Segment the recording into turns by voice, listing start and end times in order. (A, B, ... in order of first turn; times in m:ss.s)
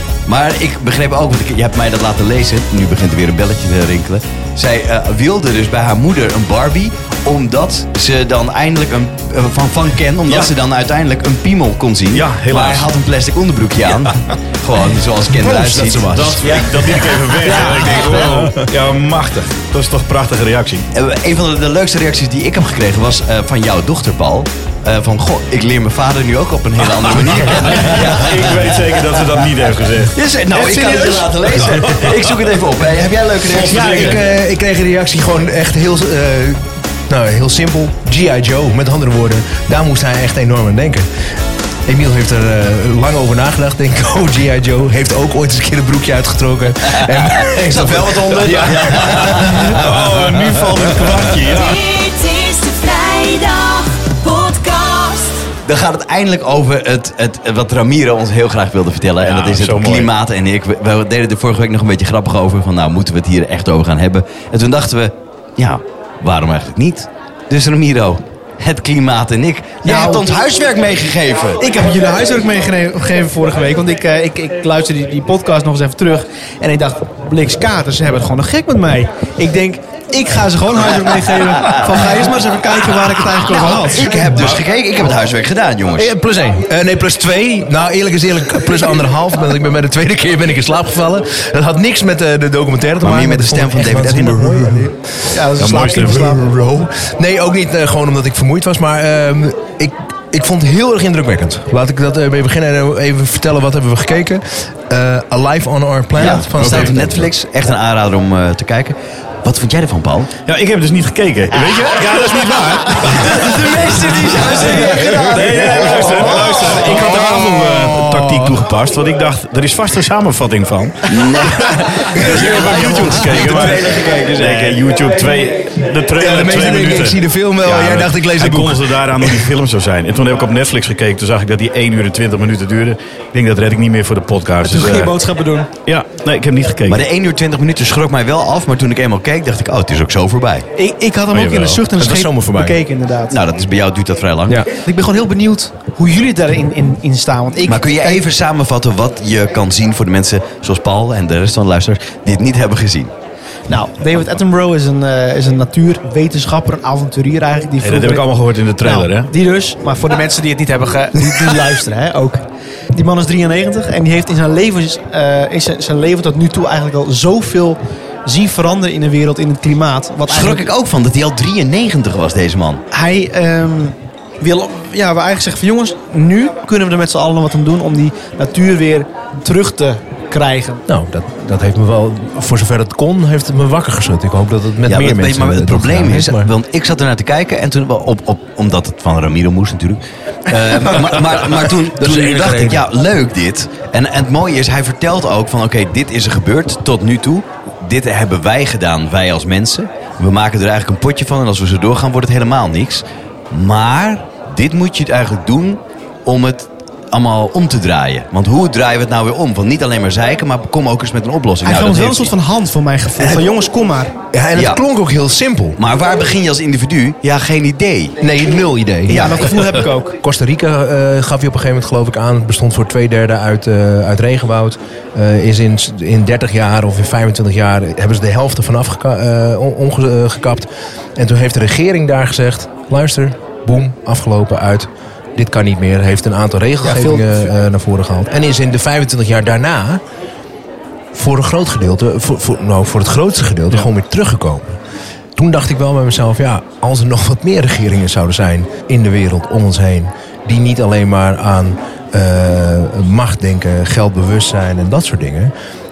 0:00.2-0:16.8 A
0:12.1-0:12.9 B
0:15.3-0:18.7 C
0:16.1-0:20.9 B
0:17.5-0:18.2 A
0:17.8-0:18.1 D
0:20.9-0:29.1 A
0:27.2-0:30.2 B
0:30.1-0:34.2 A
0:30.6-0:31.2 D
0:30.8-0:31.0 C
0:31.7-0:32.2 B
0:33.4-0:34.2 B
0:33.6-0:41.1 C
0:41.8-0:51.2 C
0:47.4-0:49.9 A
0:48.3-0:51.8 B
0:51.4-0:55.5 E
0:55.6-1:11.6 A
0:59.2-1:00.1 B
1:09.8-1:10.4 D
1:11.6-1:24.4 D
1:23.4-1:26.1 A
1:26.0-1:35.3 C
1:33.0-1:34.9 A
1:35.2-1:36.5 D
1:35.6-1:36.3 B
1:35.9-1:47.2 C
1:46.2-1:50.3 A
1:46.5-1:46.9 B
1:50.4-2:15.1 B
1:52.9-1:56.9 A
1:55.0-1:58.7 C
2:01.0-2:04.8 A
2:01.8-2:03.8 C
2:06.2-2:09.5 C
2:14.6-2:15.7 D
2:15.8-2:17.0 B
2:16.9-2:20.7 A
2:20.8-2:23.4 D
2:21.3-2:21.8 B
2:22.0-2:22.8 C
2:23.3-2:24.6 A
2:24.7-2:28.2 D
2:27.6-2:33.1 A
2:33.7-2:38.2 D
2:37.8-2:39.3 B
2:38.8-2:50.7 D
2:50.3-2:52.8 A
2:52.9-3:00.8 D
3:00.9-3:06.5 C
3:04.8-3:32.3 A
3:11.8-3:12.9 C
3:31.6-3:34.2 D
3:34.3-3:35.8 C
3:35.8-3:38.2 A
3:38.2-4:00.0 C
3:39.0-3:40.1 D
3:56.8-3:57.5 D
4:01.1-4:04.6 C
4:05.4-4:15.5 C